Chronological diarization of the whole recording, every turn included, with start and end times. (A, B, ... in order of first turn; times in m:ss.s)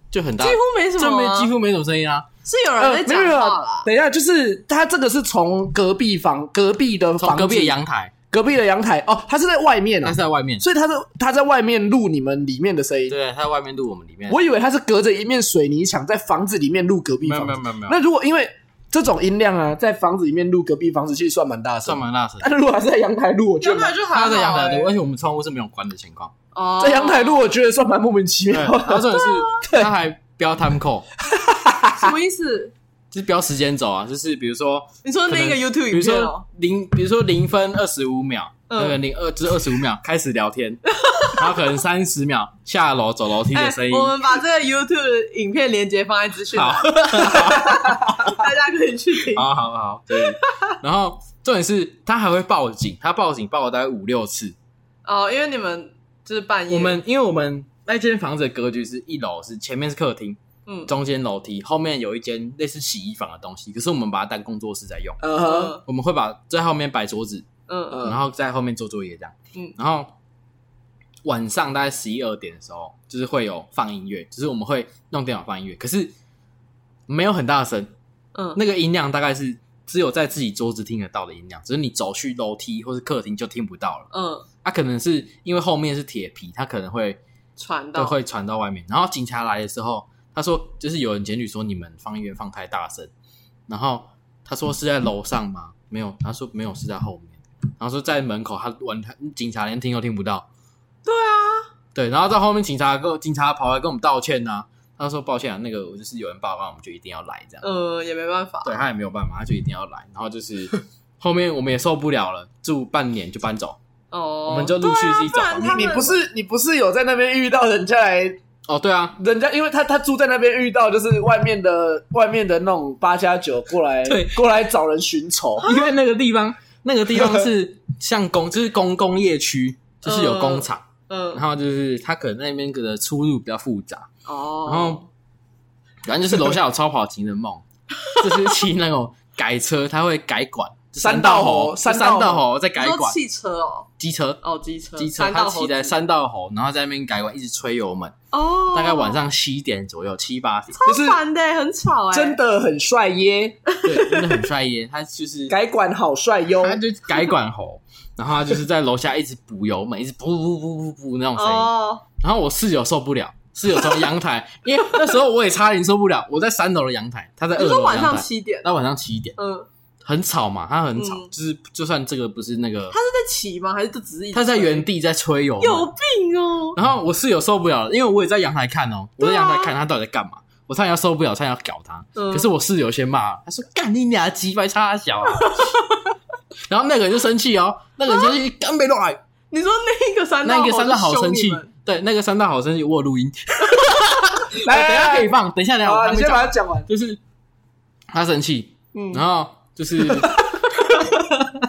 0:00.1-0:02.3 A
0:00.4-0:01.5 B
0:02.4-0:03.9 B
0:02.8-0:07.8 C
0:07.2-0:08.1 A
0:08.3-0:13.1 C
0:10.0-0:10.6 A
0:13.1-0:14.4 A
0:14.3-0:24.0 C
0:17.2-0:18.0 A
0:21.8-0:22.5 A
0:23.6-0:24.9 B
0:24.0-0:26.3 A
0:26.5-0:27.4 B
0:26.8-0:29.9 C
0:28.5-0:31.1 A
0:31.3-0:32.1 C
0:31.9-0:32.7 B
0:33.1-0:44.2 A
0:35.0-0:36.4 B
0:38.7-0:39.0 B
0:40.9-0:41.4 B
0:43.5-0:49.4 B
0:46.5-0:48.0 A
0:49.3-0:54.5 A
0:50.3-0:50.8 B
0:55.0-0:57.0 B
0:56.7-1:05.2 A
1:05.2-1:05.8 C
1:05.4-1:05.8 B
1:05.8-1:07.4 A
1:07.7-1:08.0 B
1:07.9-1:08.2 C
1:08.0-1:10.1 A
1:11.2-1:16.1 A
1:17.1-1:17.9 A
1:18.5-1:24.1 A
1:24.1-1:24.4 B
1:24.6-1:27.2 A
1:27.6-1:28.2 B
1:27.9-1:33.1 A
1:33.7-1:40.5 A
1:41.0-1:41.7 B
1:41.9-1:47.6 A
1:47.6-1:48.8 B
1:48.6-1:53.8 A
1:54.1-1:56.2 B
1:54.5-1:56.1 A
1:55.6-1:58.4 C
1:58.7-1:59.2 A
1:59.2-2:05.8 C
2:04.0-2:04.4 A
2:05.6-2:14.1 A
2:07.2-2:07.4 C
2:10.0-2:11.4 B
2:14.2-2:15.1 B
2:14.6-2:15.0 A
2:16.0-2:23.2 A
2:21.0-2:22.4 C
2:22.8-2:23.9 B
2:24.0-2:24.4 A
2:24.4-2:25.9 B
2:25.0-2:28.1 A
2:28.3-2:29.2 B
2:28.7-2:30.8 A
2:30.7-2:32.4 B
2:30.8-2:31.2 C
2:32.1-2:33.6 C
2:33.7-2:34.3 B
2:33.8-2:35.6 A
2:35.5-2:36.8 C
2:36.6-2:49.4 A
2:41.4-2:42.0 B
2:47.6-2:48.7 B
2:49.4-2:49.7 B
2:50.0-2:53.0 A
2:51.0-2:51.3 B
2:52.9-2:54.9 B
2:54.3-2:55.9 A
2:55.6-2:56.8 B
2:56.7-3:05.8 A
2:59.2-2:59.7 B
3:02.2-3:02.5 B
3:05.4-3:05.7 B
3:06.7-3:09.2 A
3:08.1-3:08.3 B
3:09.5-3:11.7 B
3:10.4-3:17.2 A
3:14.6-3:15.3 C
3:15.8-3:16.9 C
3:18.1-3:21.4 A
3:18.9-3:19.2 B
3:20.9-3:21.2 B